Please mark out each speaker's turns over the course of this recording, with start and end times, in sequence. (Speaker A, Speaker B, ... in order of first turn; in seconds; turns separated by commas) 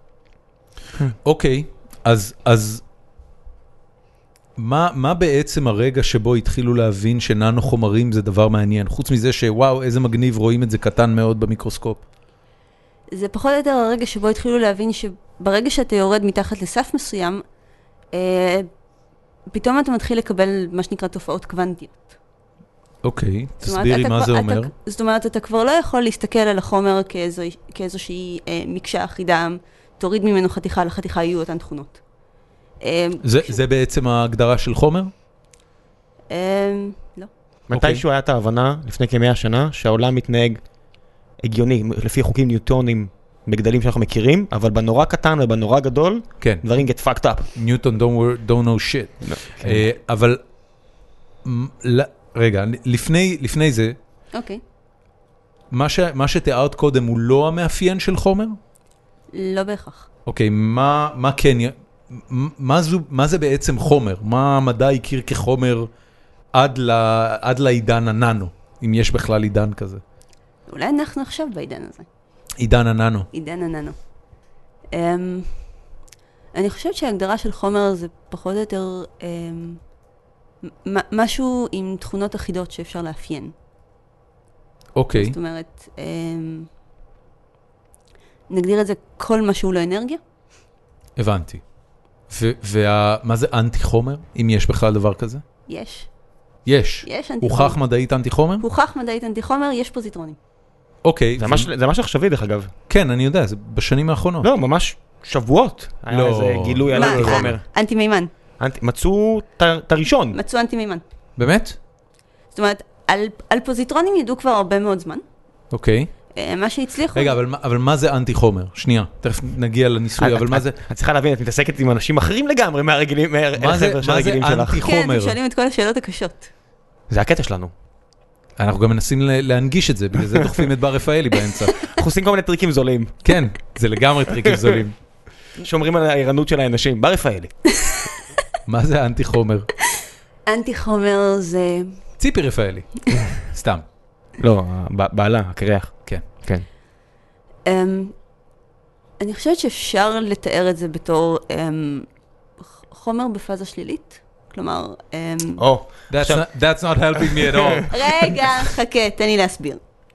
Speaker A: 1.2-2.8, Speaker A: 4.6-12.0, Speaker B: 13.1-17.4, Speaker B: 18.1-18.7, Speaker B: 19.5-22.0, Speaker A: 23.0-24.7, Speaker B: 23.6-32.0, Speaker B: 32.8-33.6, Speaker A: 33.2-35.1, Speaker B: 36.3-37.3, Speaker C: 37.7-40.6, Speaker A: 37.7-38.0, Speaker C: 41.4-47.5, Speaker A: 47.5-50.4, Speaker C: 49.2-49.9, Speaker A: 51.4-54.0, Speaker B: 54.3-54.6, Speaker A: 55.7-58.6, Speaker B: 59.3-60.1, Speaker A: 60.2-65.9, Speaker A: 66.5-70.0, Speaker B: 70.7-72.1, Speaker A: 72.6-73.3, Speaker B: 73.3-73.9, Speaker B: 74.9-75.5, Speaker B: 76.5-79.8, Speaker B: 80.6-83.5, Speaker A: 84.9-85.3, Speaker B: 85.1-86.7, Speaker B: 88.5-90.2, Speaker A: 91.2-91.6, Speaker A: 92.3-95.4, Speaker B: 95.7-96.1, Speaker A: 96.7-98.6, Speaker B: 97.0-97.8, Speaker B: 98.6-100.4, Speaker A: 101.0-101.7, Speaker C: 101.4-102.7, Speaker A: 102.9-104.5, Speaker C: 104.4-107.6, Speaker A: 106.1-107.5, Speaker B: 106.9-108.3, Speaker C: 108.6-110.4, Speaker B: 110.3-111.0, Speaker A: 111.4-111.8, Speaker B: 112.5-115.2, Speaker A: 115.7-116.1, Speaker B: 116.3-117.3, Speaker A: 117.1-120.8, Speaker C: 120.2-124.8, Speaker A: 123.6-125.4, Speaker B: 124.8-126.5, Speaker C: 127.1-127.7, Speaker A: 128.6-131.9, Speaker C: 131.8-133.2, Speaker A: 133.2-134.9, Speaker C: 134.4-134.8, Speaker C: 135.6-137.6, Speaker A: 138.7-139.7, Speaker B: 140.5-141.9, Speaker A: 142.2-143.8, Speaker C: 144.4-146.6, Speaker B: 147.7-148.1, Speaker B: 149.2-152.1, Speaker B: 152.9-155.6, Speaker C: 155.6-156.4, Speaker A: 156.1-158.3, Speaker C: 157.2-157.8, Speaker B: 157.9-159.8